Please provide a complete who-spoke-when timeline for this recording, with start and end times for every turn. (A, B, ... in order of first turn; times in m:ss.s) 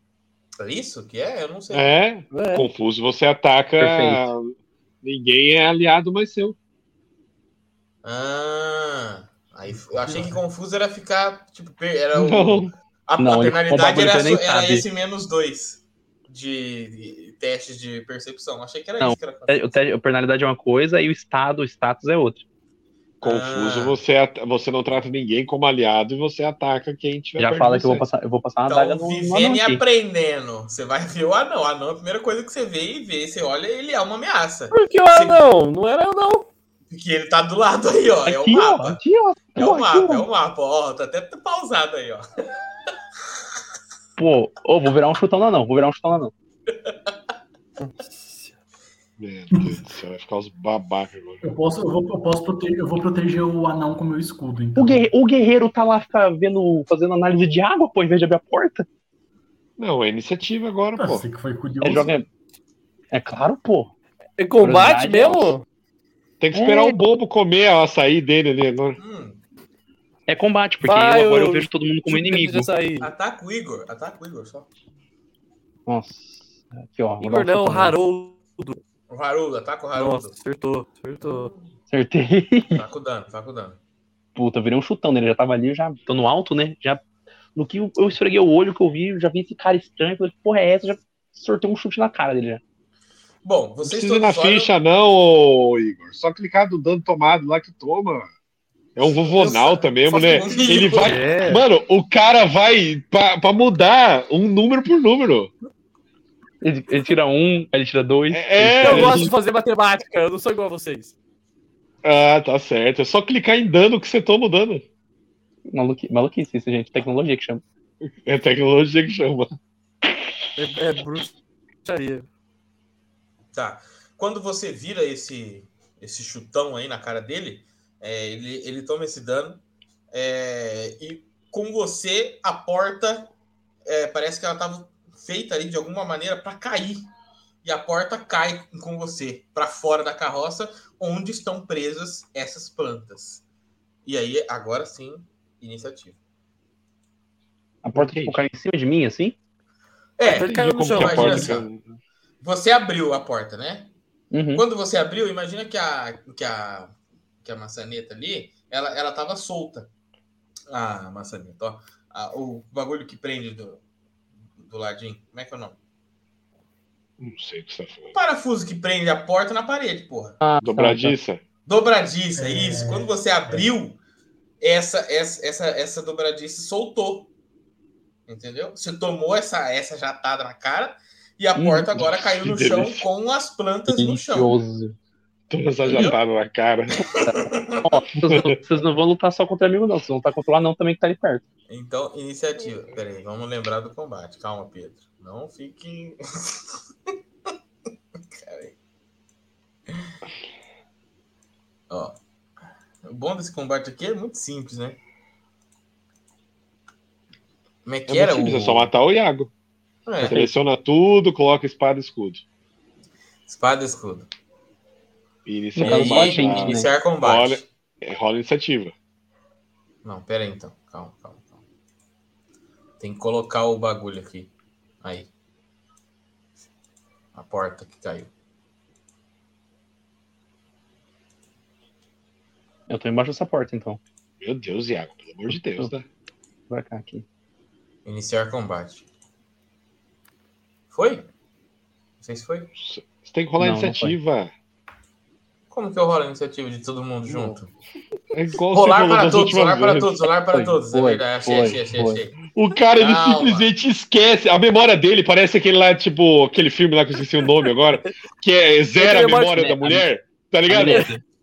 0:00.6-0:01.9 A
0:01.7-0:06.6 B
0:02.3-0:02.7 C
0:03.8-0:04.3 D
0:08.0-0:19.8 A
0:09.7-0:10.4 E
0:12.1-0:12.7 B
0:13.2-0:14.9 D
0:19.0-0:22.4 D
0:23.2-0:24.0 A
0:23.2-0:28.1 B
0:27.4-0:29.8 D
0:28.7-0:35.5 A
0:34.7-0:36.5 C
0:36.9-0:39.0 A
0:38.2-0:40.3 D
0:39.6-0:42.3 A
0:44.2-0:46.3 D
0:47.8-0:48.6 C
0:49.2-0:51.4 B
0:51.4-0:55.1 E
0:54.8-0:58.9 D
0:59.8-1:01.3 B
1:01.0-1:02.1 E
1:01.8-1:02.3 D
1:03.1-1:03.9 D
1:04.4-1:05.6 C
1:04.6-1:05.6 D
1:06.4-1:09.0 B
1:06.5-1:07.0 D
1:09.0-1:09.4 A
1:10.3-1:12.7 D
1:10.8-1:13.1 C
1:13.0-1:14.7 A
1:15.9-1:18.0 D
1:17.2-1:18.8 C
1:19.1-1:20.4 A
1:20.0-1:21.5 C
1:21.2-1:21.6 A
1:21.9-1:22.8 D
1:22.7-1:23.8 A
1:24.4-1:27.0 D
1:27.6-1:32.6 D
1:33.4-1:34.7 A
1:33.8-1:38.3 B
1:39.0-1:45.5 B
1:39.2-1:41.3 A
1:40.8-1:41.6 C
1:46.6-1:49.3 D
1:48.3-1:49.3 B
1:48.7-1:51.1 C
1:52.0-1:54.8 B
1:55.7-1:57.6 D
1:58.0-1:59.5 B
2:00.6-2:02.3 C
2:03.5-2:13.3 A
2:13.9-2:17.1 A
2:17.6-2:23.4 A
2:24.0-2:26.2 A
2:27.8-2:29.4 D
2:27.9-2:28.4 B
2:30.2-2:31.7 A
2:30.2-2:31.6 C
2:30.4-2:31.9 B
2:32.4-2:33.9 A
2:34.3-2:34.6 D
2:34.5-2:39.9 A
2:40.7-2:43.8 A
2:44.6-2:45.8 A
2:47.2-2:48.2 B
2:48.1-2:50.4 A
2:50.4-2:51.2 D
2:50.6-2:51.4 B
2:51.7-2:54.0 A
2:52.4-2:53.7 E
2:54.6-2:57.3 A
2:58.3-3:04.5 A
3:01.6-3:02.1 D
3:02.0-3:03.1 B
3:03.9-3:05.0 D
3:05.5-3:07.0 B
3:05.9-3:06.2 A
3:07.0-3:07.9 A
3:07.2-3:11.4 D
3:11.7-3:16.8 A
3:18.3-3:18.7 A
3:21.9-3:22.2 A
3:23.0-3:25.0 A
3:27.8-3:28.9 A
3:28.1-3:29.5 B
3:30.1-3:30.4 A
3:30.2-3:30.5 D
3:30.2-3:32.4 B
3:33.5-3:34.3 A
3:35.4-3:38.9 B
3:35.8-3:36.9 D
3:35.8-3:37.7 A
3:40.0-3:41.6 A
3:43.0-3:45.3 A
3:47.4-3:48.3 A
3:52.9-3:54.0 D
3:54.4-3:56.0 B
3:55.5-3:55.9 D
3:56.7-3:57.2 D
3:58.0-3:59.1 A
4:00.9-4:01.3 A
4:02.2-4:02.7 A
4:02.8-4:04.5 B
4:03.6-4:04.2 D
4:05.7-4:07.7 A
4:08.3-4:10.1 B
4:08.7-4:12.4 A
4:10.5-4:12.2 D
4:12.6-4:21.1 B
4:13.0-4:13.7 A
4:19.0-4:19.9 C
4:20.7-4:21.2 D
4:20.8-4:21.2 C